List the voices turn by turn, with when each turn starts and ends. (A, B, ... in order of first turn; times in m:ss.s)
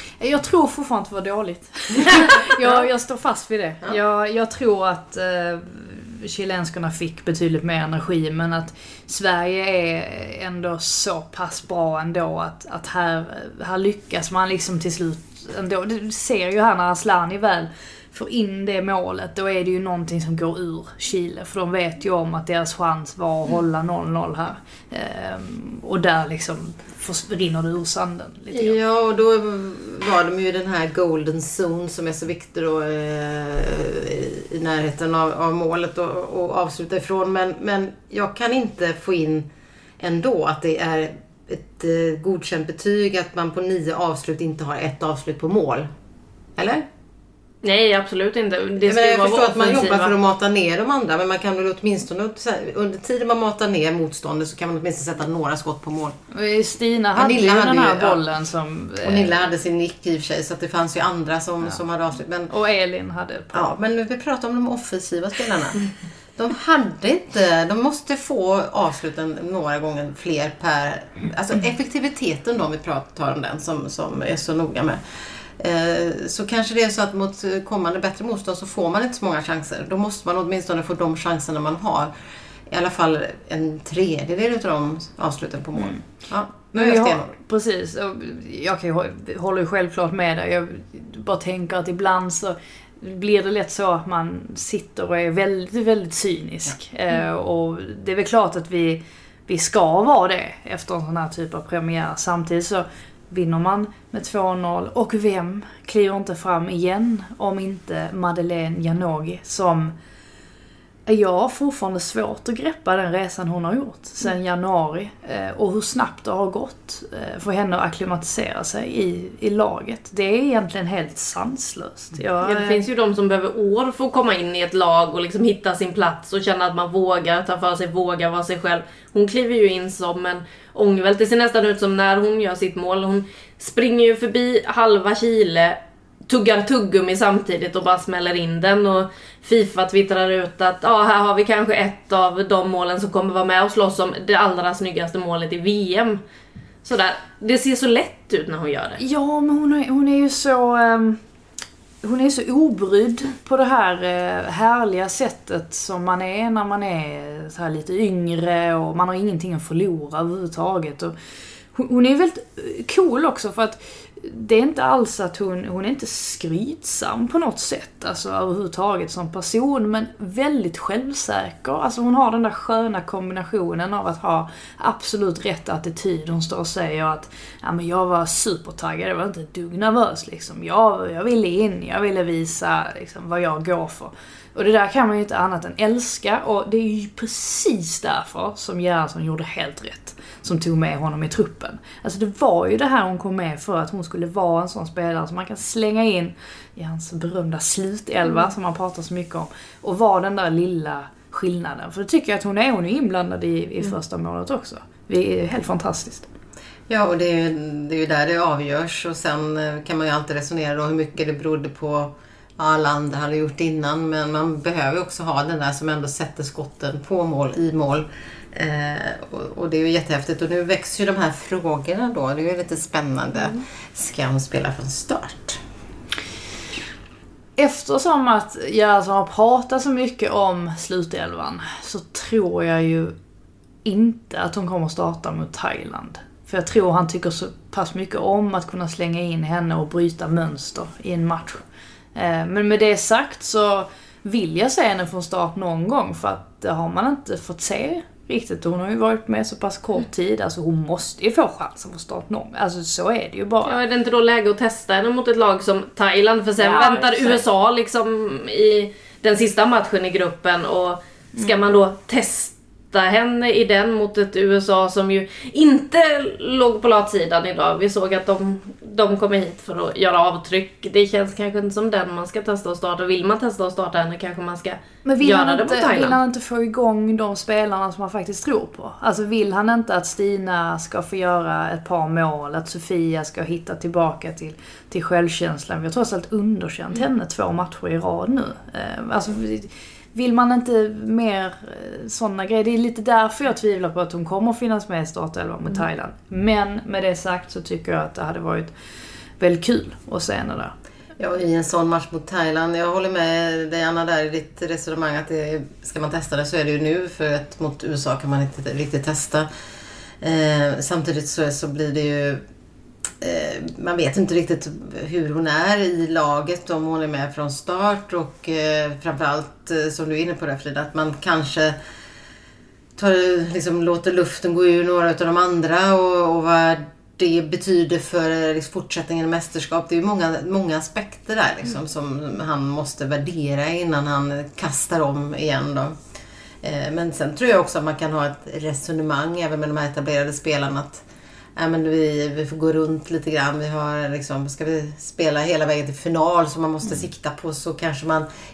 0:00.2-0:28.8 A
0:28.5-0:39.5 B
0:40.0-0:45.9 B
0:46.6-0:46.9 B
0:47.6-0:50.1 C
0:48.8-0:56.2 B
0:56.3-0:59.3 A
0:57.2-0:58.2 B
0:59.0-1:02.5 B
1:02.5-1:03.7 A
1:03.5-1:05.8 B
1:06.4-1:15.0 B
1:15.6-1:22.1 B
1:22.7-1:27.3 B
1:26.7-1:49.9 A
1:51.1-2:02.8 A
2:02.4-2:26.2 C
2:26.8-2:29.0 C
2:29.0-2:31.2 A
2:32.0-2:41.2 A
2:41.7-3:26.3 A
3:26.9-3:45.6 B
3:47.6-3:53.2 A
3:53.8-4:01.6 A
4:02.2-4:13.8 A
4:13.6-4:36.2 C
4:16.6-4:17.4 A
4:35.0-4:58.7 A
4:59.4-5:00.7 A
5:01.2-5:09.5 B
5:10.2-5:12.4 B
5:13.2-5:21.8 B
5:23.0-5:36.0 B
5:36.6-5:41.0 B
5:41.6-5:48.3 B